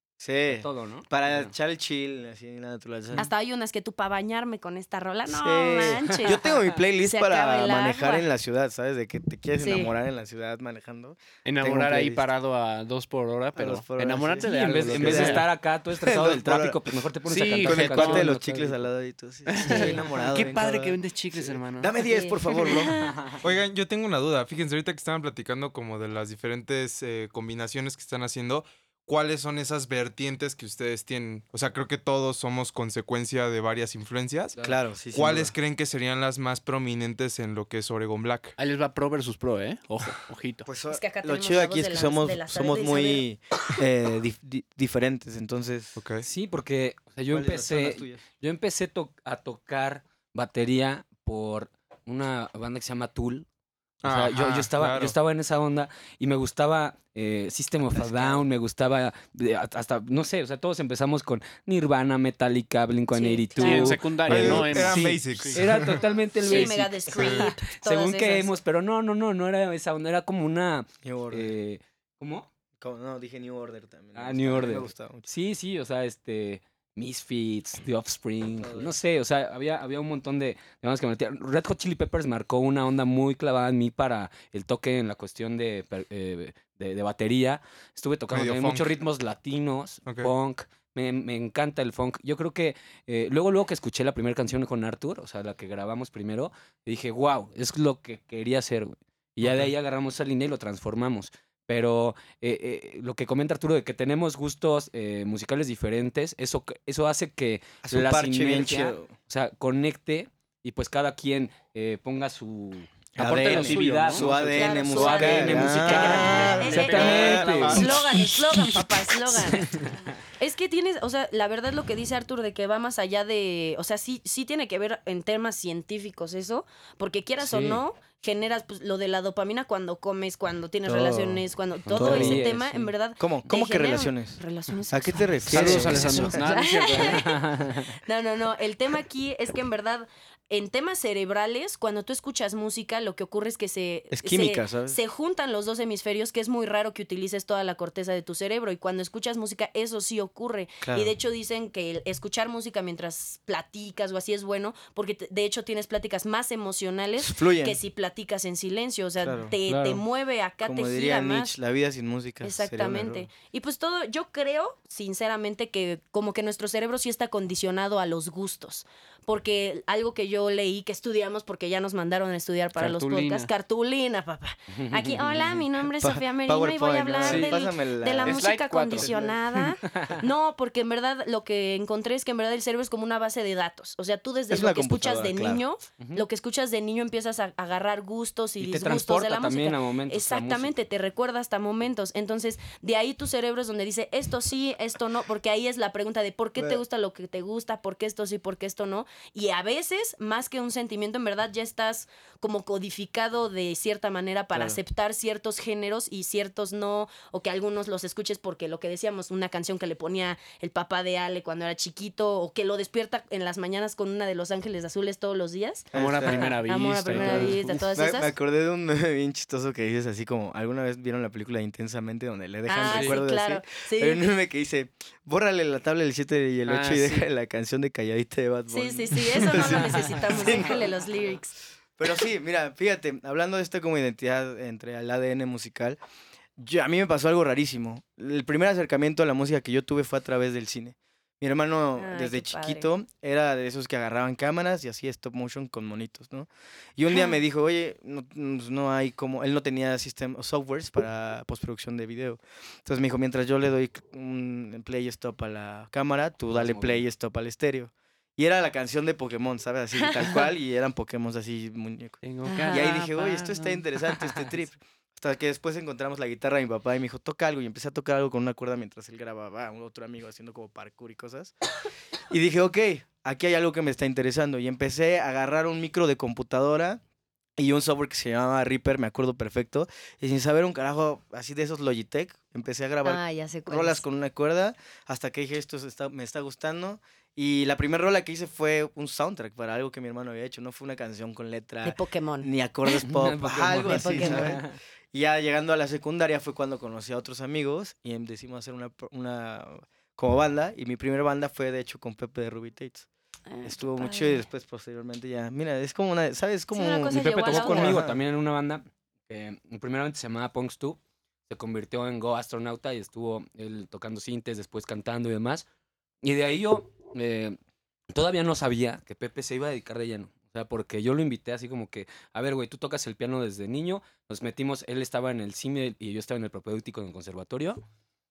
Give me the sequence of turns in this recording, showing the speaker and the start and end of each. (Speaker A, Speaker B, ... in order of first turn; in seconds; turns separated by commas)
Speaker A: 0.2-3.3, Speaker B: 0.5-1.5, Speaker C: 3.1-6.4, Speaker A: 5.3-12.2, Speaker B: 6.1-6.5, Speaker C: 7.0-8.3, Speaker C: 9.6-9.9, Speaker D: 11.4-15.4, Speaker A: 13.6-16.8, Speaker B: 14.4-18.8, Speaker D: 17.2-18.3, Speaker A: 17.6-22.9, Speaker D: 19.5-21.9, Speaker C: 19.6-20.0, Speaker C: 22.1-23.2, Speaker B: 23.1-23.3, Speaker E: 23.4-34.6, Speaker A: 34.6-35.5, Speaker E: 35.1-38.5, Speaker D: 38.6-40.7, Speaker A: 40.6-46.0, Speaker C: 40.9-43.2, Speaker E: 46.0-46.3, Speaker B: 46.2-53.5, Speaker A: 47.3-48.2, Speaker E: 54.0-55.1, Speaker B: 54.0-72.5, Speaker A: 58.1-58.4, Speaker C: 63.1-64.0, Speaker D: 63.6-65.6, Speaker E: 64.2-66.0, Speaker C: 66.4-68.5, Speaker E: 67.2-67.5, Speaker A: 71.0-71.5, Speaker A: 72.8-75.3, Speaker B: 74.1-118.0, Speaker A: 78.6-78.9, Speaker E: 88.3-88.9, Speaker E: 90.0-90.3, Speaker A: 107.8-109.1, Speaker A: 113.2-118.2, Speaker D: 113.2-114.8, Speaker C: 114.5-119.7, Speaker D: 116.0-117.7, Speaker B: 119.3-119.9, Speaker C: 120.2-137.4, Speaker B: 127.4-127.8, Speaker A: 130.9-131.4, Speaker B: 131.9-132.9, Speaker A: 131.9-132.5, Speaker A: 133.2-134.4, Speaker A: 134.9-136.4, Speaker D: 135.5-137.2, Speaker B: 137.0-137.9, Speaker C: 138.0-161.6, Speaker A: 144.1-145.0, Speaker A: 150.8-151.1, Speaker A: 157.2-157.8, Speaker A: 159.2-159.5, Speaker B: 159.7-160.0, Speaker A: 160.6-163.3, Speaker C: 162.4-218.3, Speaker D: 172.8-173.5, Speaker B: 174.7-175.6, Speaker A: 176.0-179.4, Speaker D: 177.2-177.7, Speaker D: 178.2-179.2, Speaker B: 179.8-180.2, Speaker A: 184.5-185.6, Speaker B: 186.0-186.2, Speaker B: 188.6-190.7, Speaker A: 204.5-204.8, Speaker A: 215.9-216.5, Speaker D: 215.9-217.6, Speaker A: 217.1-231.0, Speaker C: 222.7-224.2, Speaker D: 222.8-223.2, Speaker D: 226.7-227.3, Speaker C: 228.7-231.6, Speaker A: 232.0-236.0, Speaker A: 236.6-271.5, Speaker C: 241.9-242.9, Speaker C: 247.1-247.4, Speaker B: 256.5-257.1, Speaker D: 262.2-263.8, Speaker C: 262.4-263.0, Speaker B: 264.2-264.5, Speaker A: 272.3-277.0, Speaker A: 277.6-303.1, Speaker C: 283.0-284.0, Speaker C: 291.8-292.5, Speaker B: 292.9-294.8, Speaker C: 293.8-294.6, Speaker C: 303.5-304.4, Speaker A: 303.6-308.2, Speaker C: 306.7-308.0, Speaker B: 307.1-315.6, Speaker B: 316.2-317.6, Speaker B: 318.1-327.8